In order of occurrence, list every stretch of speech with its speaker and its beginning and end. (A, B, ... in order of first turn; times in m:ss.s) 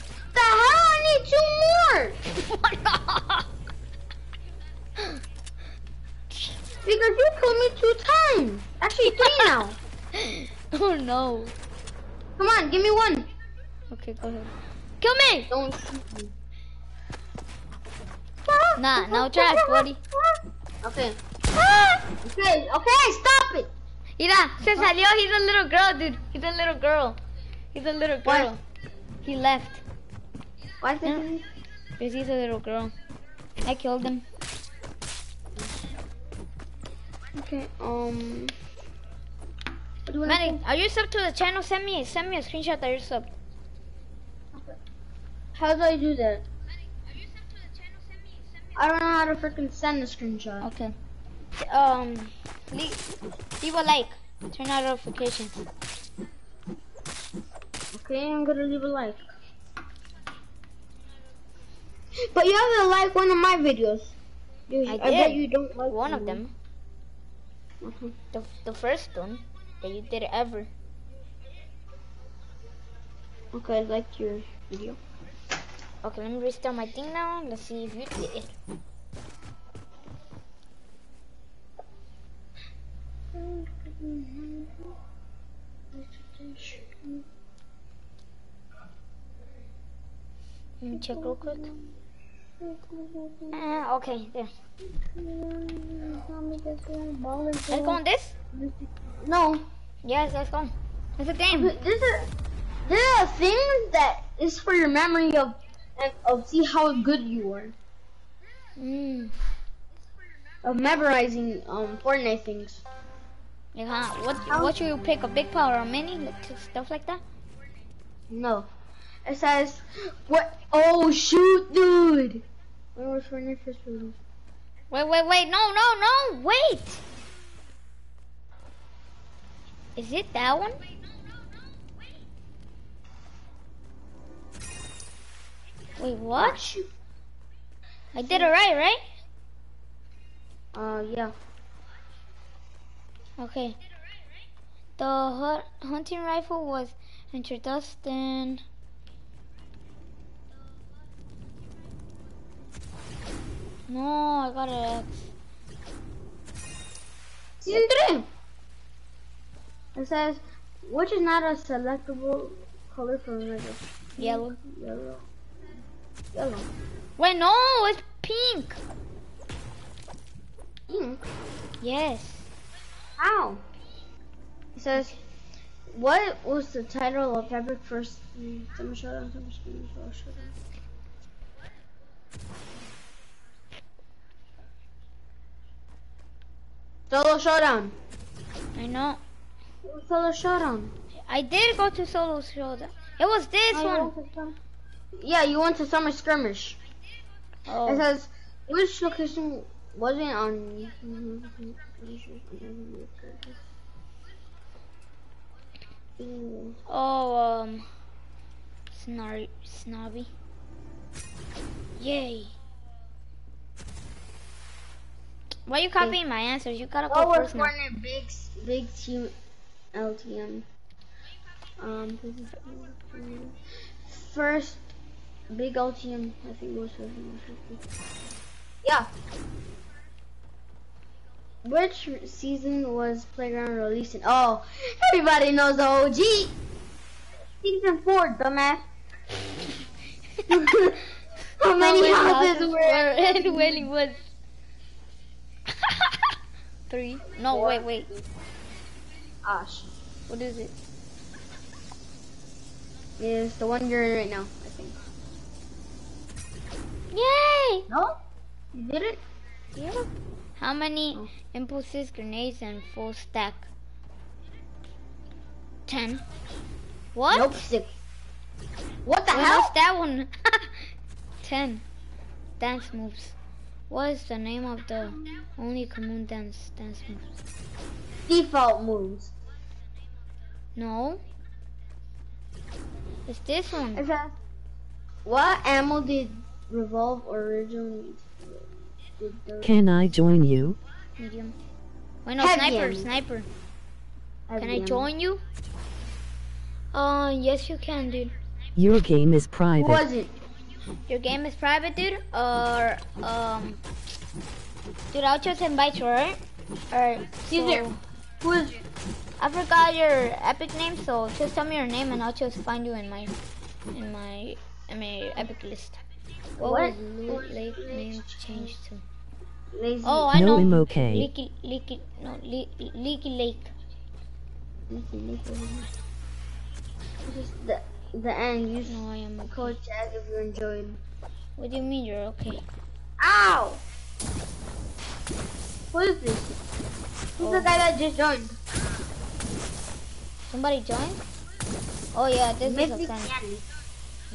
0:00.3-0:02.2 A
0:02.3-0:03.4 B
0:06.8-0:09.8 A
0:10.1-0:11.5 B
0:12.4-0:13.3 A
0:13.9-0:15.5 B
0:15.5-0:16.3 A
0:18.5-0:21.2 A
0:18.8-0:20.0 B
0:21.5-0:22.0 B
0:22.2-0:23.7 A
0:24.2-0:27.2 B
0:27.7-0:28.6 B
0:28.3-0:28.5 A
0:29.2-0:29.8 B
0:30.8-0:31.4 A
0:32.0-0:32.9 B
0:33.6-0:34.2 B
0:37.4-0:38.5 A
0:40.1-0:40.6 A
0:40.2-0:43.3 B
0:45.6-0:46.4 A
0:48.8-0:50.7 A
0:50.6-0:50.9 B
0:51.6-0:53.0 B
0:53.6-0:55.6 B
0:57.9-0:59.3 A
1:02.3-1:04.2 A
1:04.7-1:06.4 A
1:04.9-1:06.5 B
1:07.8-1:08.2 A
1:08.3-1:10.7 B
1:13.5-1:15.0 A
1:16.0-1:18.6 B
1:23.3-1:24.8 A
1:26.0-1:27.2 A
1:30.8-1:31.7 B
1:30.9-1:31.8 A
1:32.6-1:33.7 A
1:33.5-1:34.5 B
1:35.2-1:38.0 A
1:37.7-1:38.4 B
1:38.5-1:39.7 A
1:40.0-1:41.8 B
1:41.6-1:42.3 A
1:42.8-1:47.7 A
1:48.8-1:49.4 B
1:50.6-1:52.8 A
1:53.8-1:57.2 B
1:54.5-1:54.8 A
1:58.3-1:58.7 A
1:59.2-2:02.4 A
2:03.0-2:04.2 A
2:04.9-2:07.0 B
2:10.0-2:10.8 B
2:16.0-2:16.7 B
2:16.4-2:16.9 A
2:18.1-2:19.0 B
2:18.2-2:18.5 A
2:20.7-2:21.3 A
2:23.4-2:23.8 B
2:25.0-2:28.6 B
2:33.9-2:35.3 B
2:37.6-2:38.3 A
2:40.0-2:45.2 A
2:44.2-2:44.6 B
2:46.3-2:46.7 A
2:47.2-2:48.8 B
2:50.9-2:51.2 A
2:51.8-2:52.5 B
2:53.2-2:53.6 A
2:54.8-2:55.2 A
2:55.9-3:00.5 A
3:07.1-3:07.9 A
3:08.8-3:09.2 B
3:09.8-3:10.9 A
3:11.3-3:14.1 B
3:13.7-3:14.5 A
3:15.2-3:16.8 A
3:17.7-3:18.1 B
3:17.9-3:23.6 A
3:26.2-3:26.8 A
3:26.9-3:27.9 B
3:28.9-3:30.3 B
3:32.0-3:32.5 B
3:35.7-3:37.7 B
3:37.1-3:39.3 A
3:39.9-3:40.6 A
3:41.8-3:43.6 A
3:44.1-3:44.8 A
3:45.5-3:47.8 A
3:48.8-3:49.1 A
3:51.6-3:56.6 A
3:57.6-3:58.8 A
4:00.5-4:01.0 A
4:01.6-4:03.9 A
4:01.7-4:04.2 B
4:06.9-4:08.1 B
4:07.5-4:08.3 A
4:09.4-4:09.9 A
4:10.3-4:10.7 B
4:13.2-4:15.0 A
4:17.1-4:17.9 B
4:17.9-4:18.2 A
4:18.7-4:19.2 A
4:19.8-4:23.7 B
4:25.9-4:26.2 B
4:27.2-4:27.6 B
4:27.3-4:27.9 A
4:29.1-4:29.7 A
4:29.3-4:30.7 B
4:31.4-4:31.8 B
4:32.6-4:33.4 B
4:33.9-4:37.2 B
4:38.3-4:39.3 A
4:40.8-4:41.2 B
4:43.3-4:44.0 B
4:44.0-4:44.3 A
4:45.2-4:48.6 A
4:49.2-4:49.7 A
4:49.6-4:50.8 C
4:51.2-4:51.5 B
4:52.2-4:53.5 B
4:52.4-4:53.1 A
4:54.5-4:55.1 A
4:54.6-4:55.4 B
4:56.9-4:58.3 B
4:58.8-5:00.0 C
4:59.8-5:00.3 A
5:01.1-5:03.8 B
5:05.1-5:06.4 B
5:06.9-5:08.0 B
5:07.2-5:07.9 A
5:08.4-5:08.8 A
5:09.4-5:13.3 B
5:13.9-5:16.0 B
5:16.6-5:19.0 B
5:16.6-5:18.7 A
5:19.7-5:20.6 A
5:20.0-5:23.7 B
5:20.3-5:21.3 C
5:24.9-5:25.9 A
5:27.2-5:31.0 A
5:28.8-5:29.8 B
5:31.6-5:32.6 B
5:33.2-5:33.8 A
5:35.9-5:36.4 A
5:37.4-5:38.6 A
5:37.4-5:37.7 B
5:40.5-5:41.2 B
5:42.1-5:43.3 B
5:42.6-5:43.6 A